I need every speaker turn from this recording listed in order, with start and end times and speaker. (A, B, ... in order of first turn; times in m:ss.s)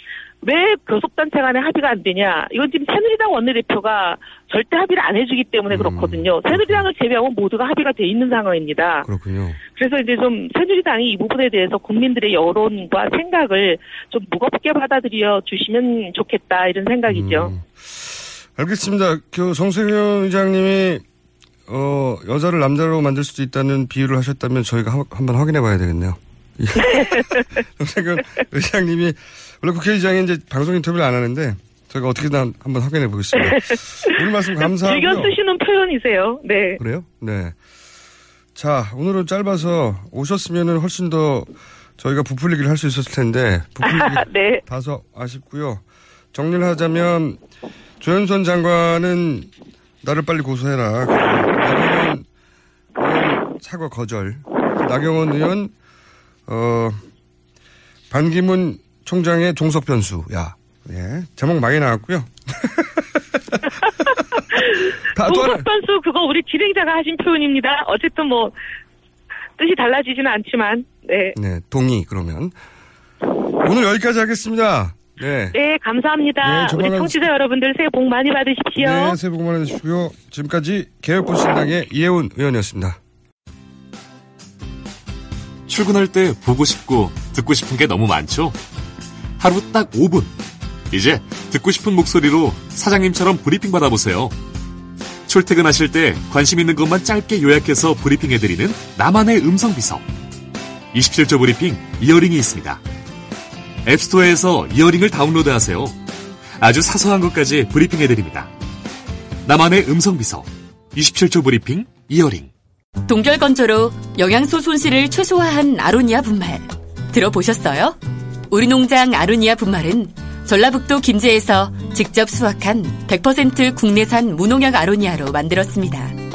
0:00.4-0:09.1 A
0:05.7-0:06.9 B
0:09.0-0:09.6 B
0:09.7-0:17.5 A
0:17.1-0:21.0 B
0:21.7-0:35.3 B
0:26.8-0:27.5 A
0:33.4-0:36.8 A
0:36.8-0:37.6 B
0:38.6-0:45.8 B
0:43.8-0:44.6 A
0:46.3-0:47.4 B
0:48.0-0:49.5 B
0:50.0-0:52.2 B
0:53.0-0:55.7 B
0:56.5-0:57.0 B
0:58.1-1:02.8 B
1:04.5-1:08.5 A
1:05.1-1:05.6 B
1:09.6-1:11.4 A
1:11.4-1:12.5 B
1:13.6-1:15.6 B
1:15.5-1:19.2 A
1:16.4-1:17.2 B
1:18.8-1:23.0 B
1:25.7-1:28.6 C
1:29.4-1:30.3 C
1:30.9-1:34.4 C
1:35.3-1:40.0 C
1:40.9-1:42.8 C
1:43.8-1:46.0 C
1:46.6-1:48.5 C
1:49.4-1:52.5 C
1:53.1-1:58.0 D
1:58.5-2:06.2 D